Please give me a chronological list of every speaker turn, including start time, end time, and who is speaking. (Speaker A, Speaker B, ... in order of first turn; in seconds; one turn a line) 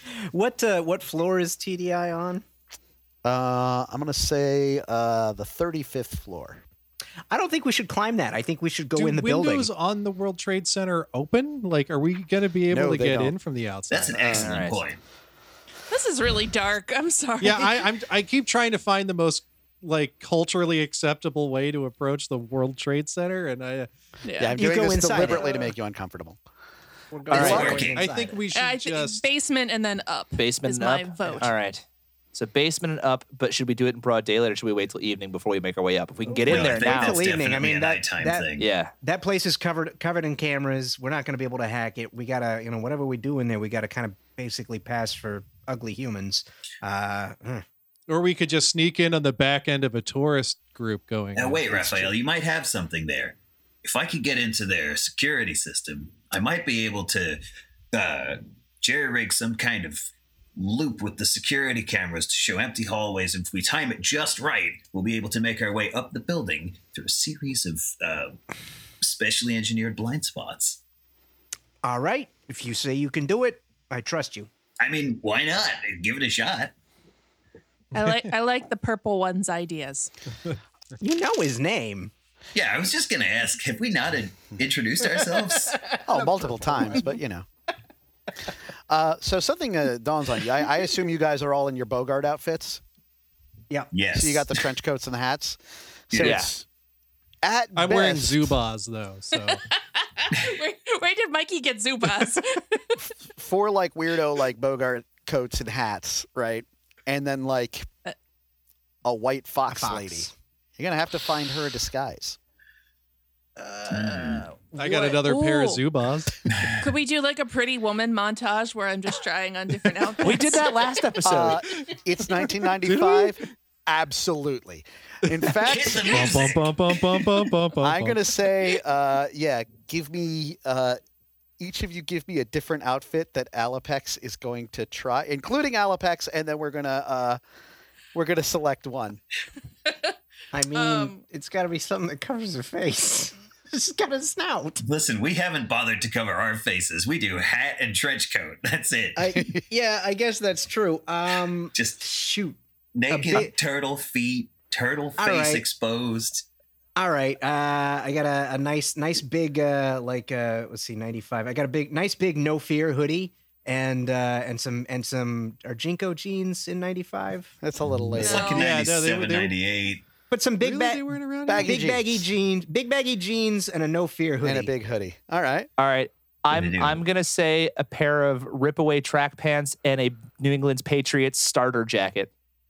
Speaker A: 0.3-2.4
Speaker B: 3.2-6.6
Speaker A: 7.3-9.7
Speaker C: 8.9-14.4
Speaker B: 12.7-13.3
Speaker D: 13.9-15.0
Speaker B: 14.1-14.5
Speaker E: 14.3-14.8
Speaker F: 15.9-17.9
Speaker C: 17.4-23.9
Speaker F: 24.2-24.7
Speaker B: 24.4-26.4
Speaker A: 24.6-25.6
Speaker A: 27.1-28.5
Speaker D: 27.3-28.1
Speaker B: 27.3-27.8
Speaker E: 27.3-27.7
Speaker C: 27.4-29.2
Speaker F: 28.5-31.5
Speaker E: 30.4-37.2
Speaker A: 36.3-47.6
Speaker D: 36.4-38.7
Speaker E: 38.6-38.9
Speaker C: 48.1-52.1
Speaker D: 51.3-57.4
Speaker D: 57.9-60.0
Speaker D: 60.5-68.4
Speaker D: 69.0-70.8
Speaker A: 71.8-74.5
Speaker D: 74.8-76.7
Speaker F: 77.9-80.1
Speaker C: 78.0-78.3
Speaker A: 81.0-82.1
Speaker D: 82.5-85.8
Speaker A: 85.2-87.1
Speaker B: 86.1-87.5
Speaker B: 88.9-92.8
Speaker D: 93.9-94.6
Speaker B: 94.1-96.6
Speaker D: 96.1-96.5
Speaker E: 96.2-96.5
Speaker B: 97.4-98.6
Speaker C: 97.8-99.6
Speaker F: 99.3-102.8
Speaker B: 103.2-107.9
Speaker B: 109.0-112.4
Speaker A: 109.7-110.3
Speaker A: 113.6-114.6
Speaker D: 113.9-114.5
Speaker C: 114.7-116.5
Speaker F: 115.0-115.8
Speaker D: 116.5-116.8
Speaker F: 116.8-120.8
Speaker E: 120.2-121.6
Speaker B: 121.2-126.6
Speaker C: 122.8-123.4
Speaker D: 125.6-127.2
Speaker C: 126.0-128.2
Speaker B: 127.8-131.0
Speaker B: 131.6-137.4
Speaker B: 138.1-139.2
Speaker A: 140.5-144.8
Speaker F: 140.7-141.2
Speaker D: 144.8-149.4
Speaker A: 149.2-152.6
Speaker D: 151.7-152.1
Speaker D: 152.9-156.4
Speaker A: 153.1-153.5
Speaker A: 155.2-155.6
Speaker A: 156.9-167.5
Speaker B: 167.6-168.6
Speaker D: 168.1-170.0
Speaker F: 168.2-168.7
Speaker C: 168.4-169.5
Speaker A: 170.3-174.7
Speaker C: 170.6-171.8
Speaker B: 171.4-172.3
Speaker B: 174.4-175.7
Speaker E: 175.8-182.3
Speaker D: 176.5-177.0